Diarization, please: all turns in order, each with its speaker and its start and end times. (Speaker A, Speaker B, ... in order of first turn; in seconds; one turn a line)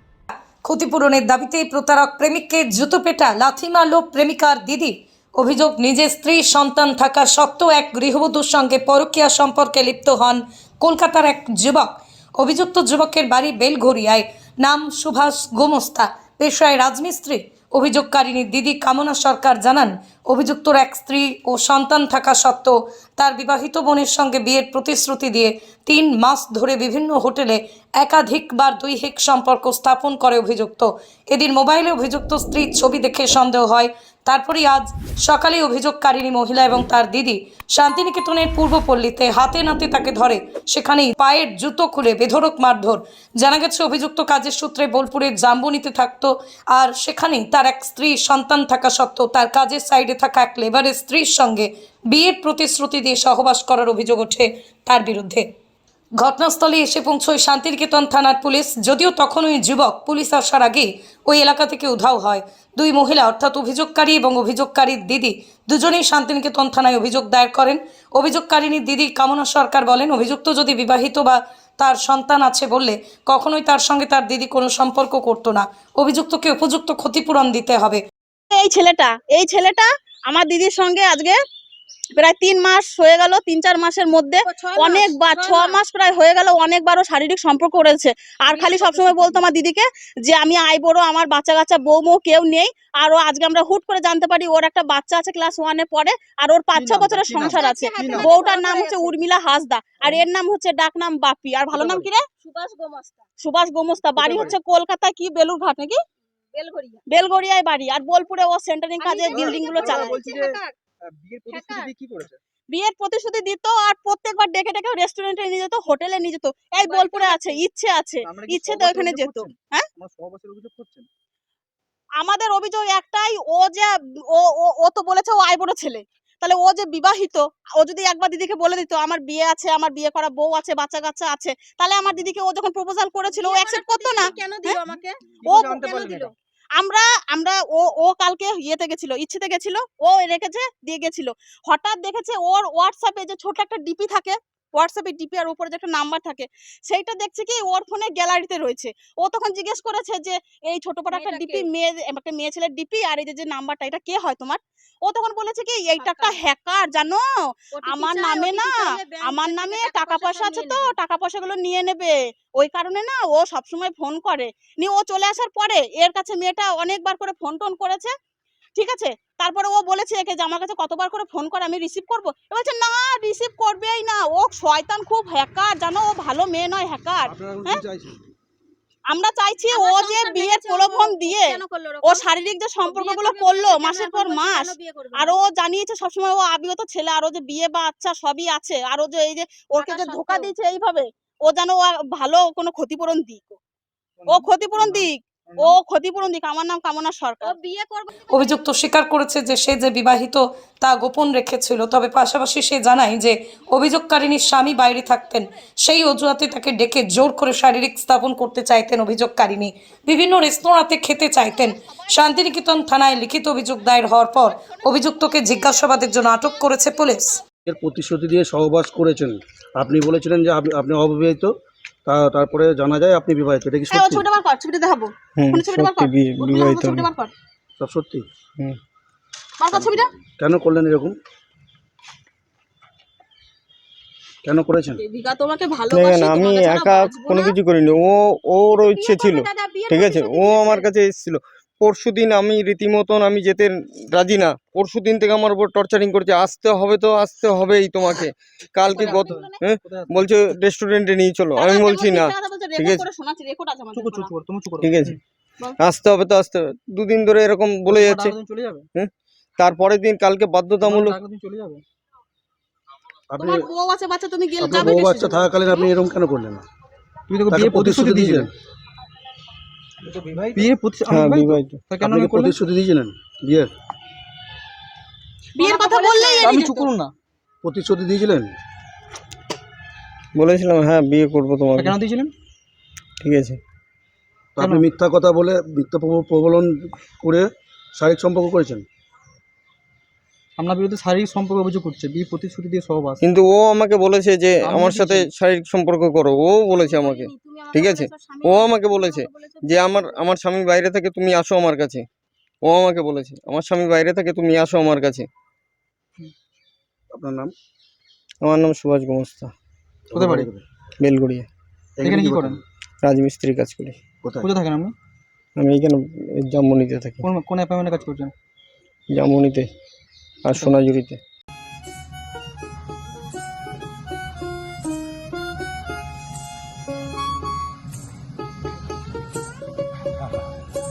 Speaker A: 0.6-55.5
Speaker A: 56.2-78.0
Speaker B: 78.5-81.4
Speaker B: 82.2-102.2
Speaker C: 84.4-85.8
Speaker C: 88.5-89.4
Speaker D: 96.8-98.3
Speaker C: 97.3-99.2
Speaker C: 102.3-103.2
Speaker B: 103.4-106.0
Speaker D: 104.2-104.5
Speaker C: 106.5-107.0
Speaker B: 107.1-110.3
Speaker C: 109.0-110.7
Speaker D: 109.3-112.4
Speaker C: 111.5-111.9
Speaker B: 112.7-119.8
Speaker D: 117.0-117.4
Speaker D: 118.2-121.1
Speaker B: 122.2-134.8
Speaker C: 133.3-135.1
Speaker D: 134.9-136.3
Speaker B: 135.4-136.2
Speaker C: 136.0-136.3
Speaker B: 136.8-157.2
Speaker C: 151.1-151.7
Speaker C: 155.9-156.4
Speaker C: 157.7-160.9
Speaker B: 157.9-168.1
Speaker B: 168.8-177.8
Speaker E: 177.3-178.2
Speaker B: 179.1-193.6
Speaker C: 179.7-182.3
Speaker C: 182.8-185.4
Speaker C: 189.8-190.5
Speaker D: 194.2-195.8
Speaker B: 194.3-197.5
Speaker C: 197.4-198.6
Speaker A: 198.3-217.4
Speaker E: 217.7-221.5
Speaker E: 222.0-224.2
Speaker B: 223.9-227.3
Speaker F: 225.4-227.1
Speaker E: 227.8-228.2
Speaker B: 229.6-230.1
Speaker E: 229.7-231.2
Speaker E: 234.4-235.0
Speaker B: 235.0-237.5
Speaker F: 235.9-253.0
Speaker B: 239.2-240.8
Speaker C: 240.3-240.6
Speaker B: 248.8-249.6
Speaker D: 248.9-250.2
Speaker B: 251.6-254.3
Speaker D: 253.9-255.2
Speaker F: 254.8-255.2
Speaker F: 255.8-258.4
Speaker D: 257.9-258.9
Speaker F: 258.9-261.2
Speaker D: 260.8-261.8
Speaker E: 263.3-263.7
Speaker B: 263.4-265.5
Speaker E: 264.6-266.6
Speaker D: 267.3-268.5
Speaker E: 267.5-268.5
Speaker D: 270.5-272.5
Speaker F: 271.1-271.8
Speaker E: 272.0-273.7
Speaker B: 275.6-276.8
Speaker C: 275.6-276.9
Speaker D: 275.7-277.1
Speaker E: 277.6-278.5
Speaker F: 280.4-282.0
Speaker D: 281.8-282.3
Speaker F: 283.2-283.6
Speaker E: 284.6-288.9
Speaker D: 284.6-284.9
Speaker D: 290.6-293.2
Speaker F: 293.2-302.0
Speaker D: 294.6-295.3
Speaker C: 296.8-300.2
Speaker F: 302.6-305.3
Speaker E: 307.1-307.5
Speaker F: 308.4-309.5
Speaker E: 310.1-310.6
Speaker D: 310.1-310.5
Speaker F: 311.0-311.5
Speaker E: 312.0-312.6
Speaker D: 312.0-312.6
Speaker F: 313.0-314.0
Speaker E: 314.2-314.5
Speaker D: 314.4-314.9
Speaker F: 315.6-317.3
Speaker D: 317.2-318.3
Speaker F: 319.1-319.7
Speaker F: 320.4-321.2